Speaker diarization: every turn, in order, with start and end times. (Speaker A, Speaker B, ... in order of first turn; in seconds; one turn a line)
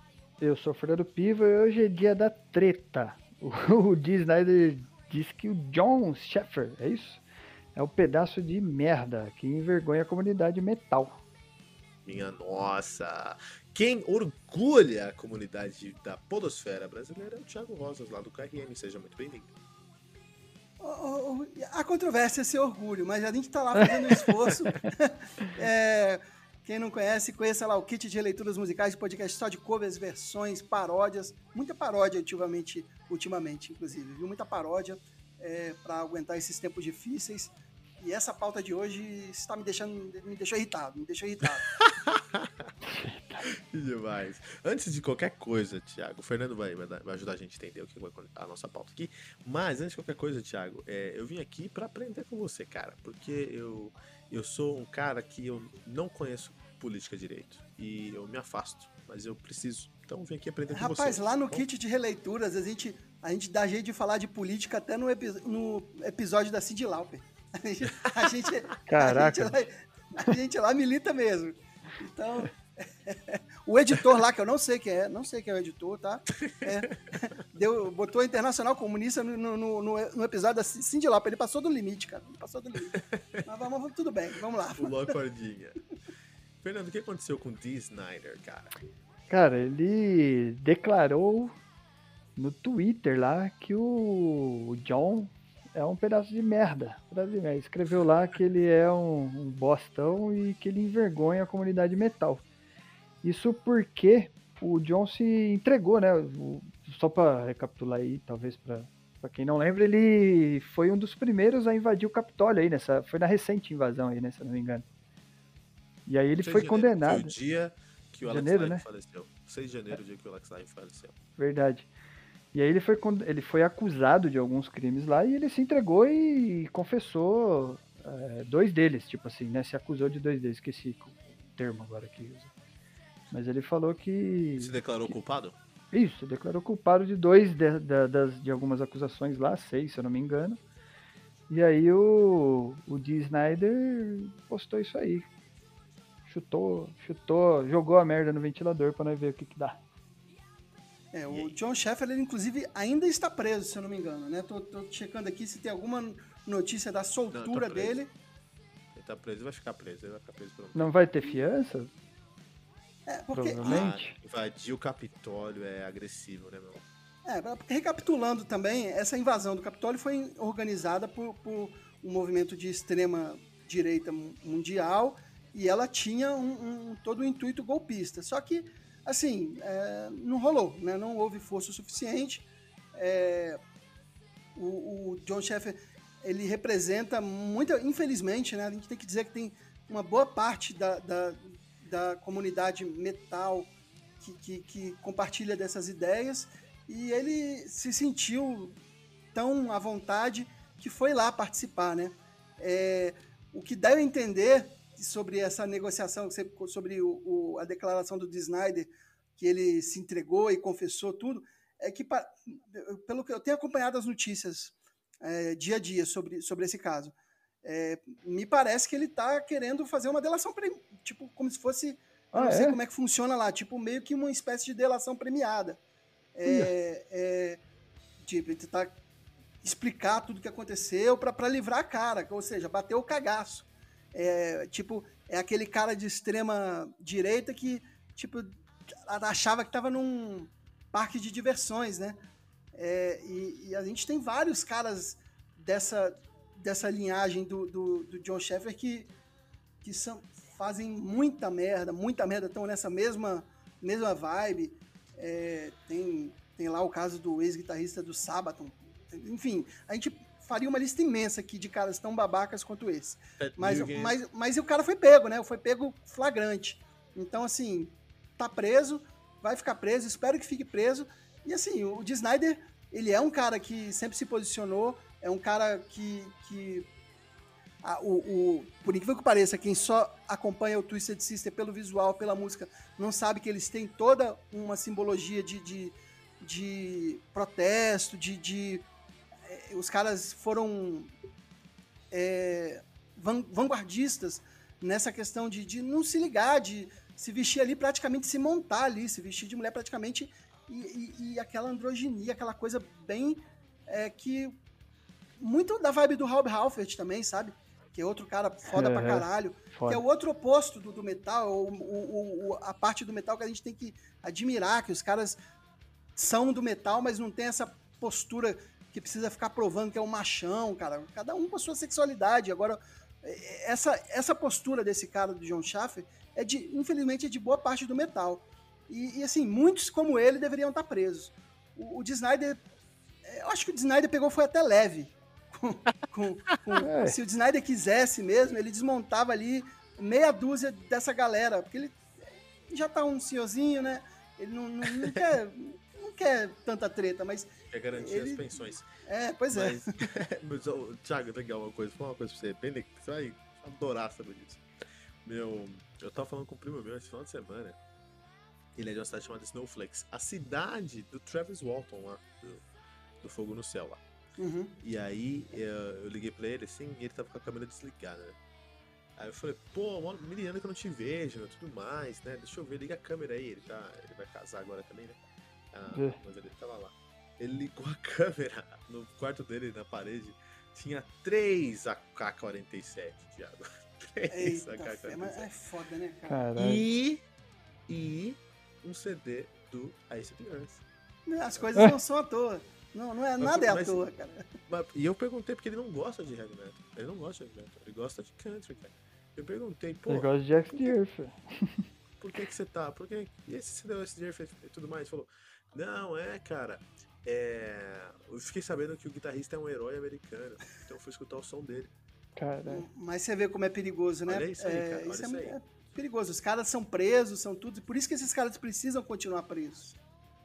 Speaker A: 0.4-7.2
Speaker A: 7.8-11.2
Speaker B: 12.1-19.5
Speaker C: 20.8-41.7
Speaker A: 23.8-24.2
Speaker B: 41.8-42.4
Speaker A: 42.9-43.4
Speaker B: 43.7-61.6
Speaker C: 60.7-85.1
Speaker A: 68.9-69.5
Speaker B: 83.0-83.4
Speaker B: 84.8-85.8
Speaker B: 86.6-88.7
Speaker A: 89.3-91.5
Speaker A: 92.4-102.4
Speaker A: 103.2-114.9
Speaker A: 116.1-117.3
Speaker B: 116.4-121.2
Speaker A: 118.2-118.8
Speaker A: 121.4-121.9
Speaker A: 122.5-132.5
Speaker A: 133.3-135.1
Speaker B: 134.6-135.6
Speaker A: 135.9-140.6
Speaker A: 141.5-145.3
Speaker A: 146.2-149.8
Speaker C: 151.1-158.1
Speaker B: 151.3-151.6
Speaker B: 157.3-158.0
Speaker B: 158.9-161.3
Speaker A: 160.7-161.9
Speaker C: 163.1-163.9
Speaker A: 163.3-164.2
Speaker B: 163.6-166.8
Speaker C: 167.2-183.6
Speaker C: 184.6-198.8
Speaker C: 199.3-225.8
Speaker A: 222.3-222.8
Speaker C: 226.3-227.6
Speaker A: 226.5-226.7
Speaker C: 228.2-228.9
Speaker C: 229.6-238.5
Speaker C: 239.1-242.2
Speaker C: 242.8-249.1
Speaker C: 249.8-276.9
Speaker B: 263.4-264.2
Speaker C: 277.8-288.9
Speaker C: 289.5-291.1
Speaker C: 292.1-304.6
Speaker C: 305.4-315.4
Speaker A: 308.7-310.0
Speaker C: 316.2-332.6
Speaker C: 333.3-342.0
Speaker A: 336.8-337.2
Speaker C: 342.7-349.9
Speaker B: 347.7-348.9
Speaker B: 349.5-354.6
Speaker B: 355.2-357.8
Speaker B: 358.8-362.6
Speaker B: 363.2-364.0
Speaker C: 364.4-364.8
Speaker B: 364.8-368.4
Speaker B: 369.2-375.2
Speaker B: 375.7-385.5
Speaker A: 375.9-376.2
Speaker C: 384.3-386.4
Speaker A: 386.3-386.8
Speaker B: 386.6-387.2
Speaker B: 387.9-390.8
Speaker C: 391.3-394.5
Speaker B: 393.4-394.0
Speaker B: 394.7-401.0
Speaker A: 400.1-401.9
Speaker B: 402.2-411.9
Speaker A: 412.4-412.9
Speaker C: 412.7-420.0
Speaker B: 414.3-415.6